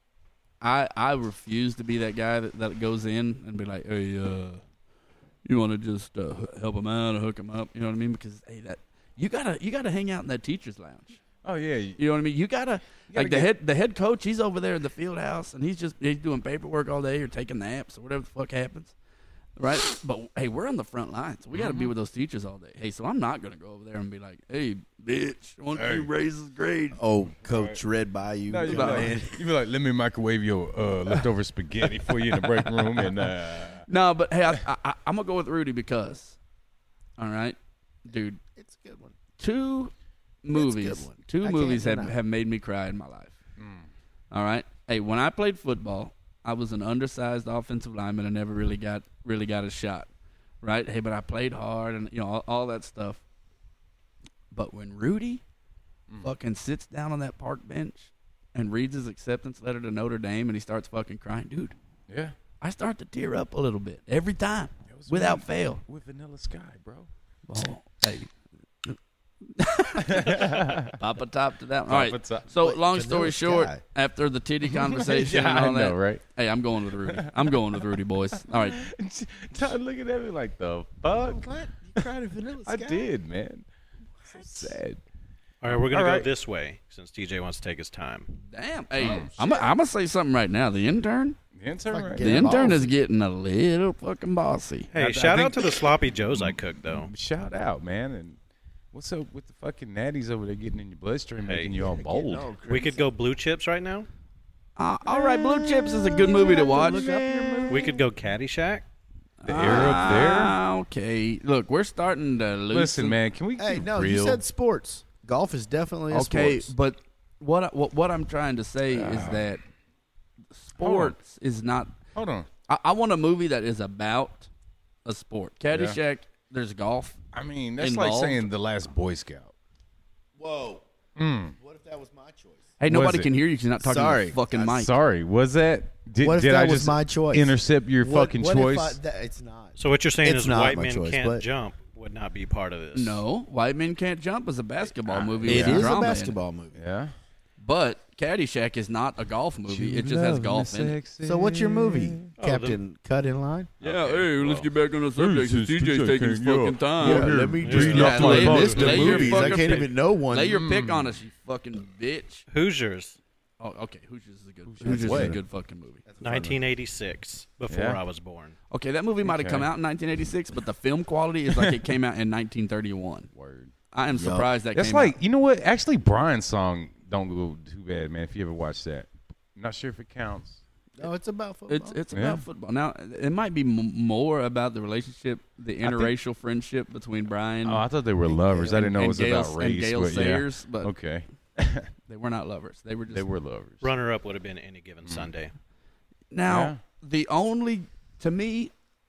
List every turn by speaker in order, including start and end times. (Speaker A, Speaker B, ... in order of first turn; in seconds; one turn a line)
Speaker A: 0.6-4.6
Speaker A: 5.4-11.2
Speaker B: 11.4-12.0
Speaker A: 12.0-18.9
Speaker B: 13.1-13.5
Speaker A: 19.6-27.0
Speaker B: 21.5-21.9
Speaker B: 25.8-26.1
Speaker C: 26.9-29.4
Speaker B: 27.5-27.8
Speaker B: 28.5-33.9
Speaker A: 28.7-29.1
Speaker A: 32.0-33.1
Speaker A: 33.9-36.4
Speaker A: 37.2-38.4
Speaker C: 38.4-39.1
Speaker A: 39.4-39.9
Speaker A: 40.4-43.4
Speaker C: 40.5-42.2
Speaker B: 43.6-43.9
Speaker A: 44.3-50.1
Speaker A: 50.6-53.2
Speaker A: 54.5-55.4
Speaker A: 56.2-61.7
Speaker B: 62.1-62.3
Speaker A: 62.6-65.8
Speaker B: 64.9-67.1
Speaker A: 67.5-68.3
Speaker A: 69.5-78.9
Speaker B: 70.0-71.0
Speaker B: 71.9-72.5
Speaker C: 72.5-73.8
Speaker B: 74.6-76.2
Speaker B: 77.0-82.0
Speaker C: 81.2-83.1
Speaker B: 82.7-83.7
Speaker C: 84.2-84.8
Speaker B: 84.3-85.0
Speaker D: 85.6-88.4
Speaker B: 85.6-86.3
Speaker A: 88.5-91.4
Speaker B: 89.0-89.3
Speaker C: 89.0-89.7
Speaker B: 91.5-92.8
Speaker C: 91.9-92.9
Speaker A: 92.2-94.9
Speaker D: 94.9-97.1
Speaker B: 95.0-98.4
Speaker B: 98.9-102.5
Speaker D: 101.4-101.7
Speaker C: 101.7-103.1
Speaker D: 102.7-104.1
Speaker A: 104.8-107.1
Speaker B: 105.1-107.8
Speaker C: 105.5-108.0
Speaker D: 107.7-108.8
Speaker A: 109.4-113.2
Speaker B: 109.4-110.6
Speaker B: 112.7-114.4
Speaker C: 113.6-116.7
Speaker A: 116.1-119.6
Speaker B: 118.9-119.5
Speaker A: 120.5-122.0
Speaker B: 120.8-121.2
Speaker B: 122.1-122.5
Speaker A: 122.7-124.5
Speaker A: 125.0-127.2
Speaker B: 125.7-126.0
Speaker B: 127.3-129.5
Speaker A: 127.8-128.5
Speaker C: 130.4-130.8
Speaker B: 131.2-131.5
Speaker C: 131.6-132.7
Speaker A: 132.8-134.9
Speaker B: 132.8-133.3
Speaker C: 133.8-134.5
Speaker B: 134.5-139.0
Speaker C: 136.2-141.4
Speaker D: 139.8-143.2
Speaker A: 142.9-146.3
Speaker B: 145.1-145.9
Speaker C: 145.4-146.8
Speaker B: 146.7-147.1
Speaker A: 147.6-151.0
Speaker B: 149.7-152.3
Speaker C: 151.2-153.7
Speaker D: 152.4-152.8
Speaker D: 153.8-154.7
Speaker A: 153.8-162.4
Speaker B: 155.2-159.4
Speaker C: 157.0-160.6
Speaker D: 157.6-159.9
Speaker B: 160.5-161.1
Speaker D: 162.5-163.2
Speaker A: 163.6-166.0
Speaker B: 164.7-165.3
Speaker C: 164.8-165.4
Speaker C: 166.0-166.6
Speaker D: 166.2-168.6
Speaker B: 167.7-168.0
Speaker A: 168.7-173.3
Speaker B: 169.2-169.7
Speaker B: 173.3-173.7
Speaker A: 173.9-175.2
Speaker C: 174.1-174.5
Speaker B: 174.7-180.6
Speaker C: 181.0-182.0
Speaker A: 181.7-187.8
Speaker B: 182.1-182.4
Speaker B: 185.8-186.1
Speaker B: 187.6-191.9
Speaker C: 188.2-188.9
Speaker A: 188.7-190.9
Speaker A: 192.1-193.2
Speaker B: 193.1-193.9
Speaker D: 193.8-195.5
Speaker B: 195.0-195.3
Speaker A: 196.3-198.7
Speaker B: 196.5-196.8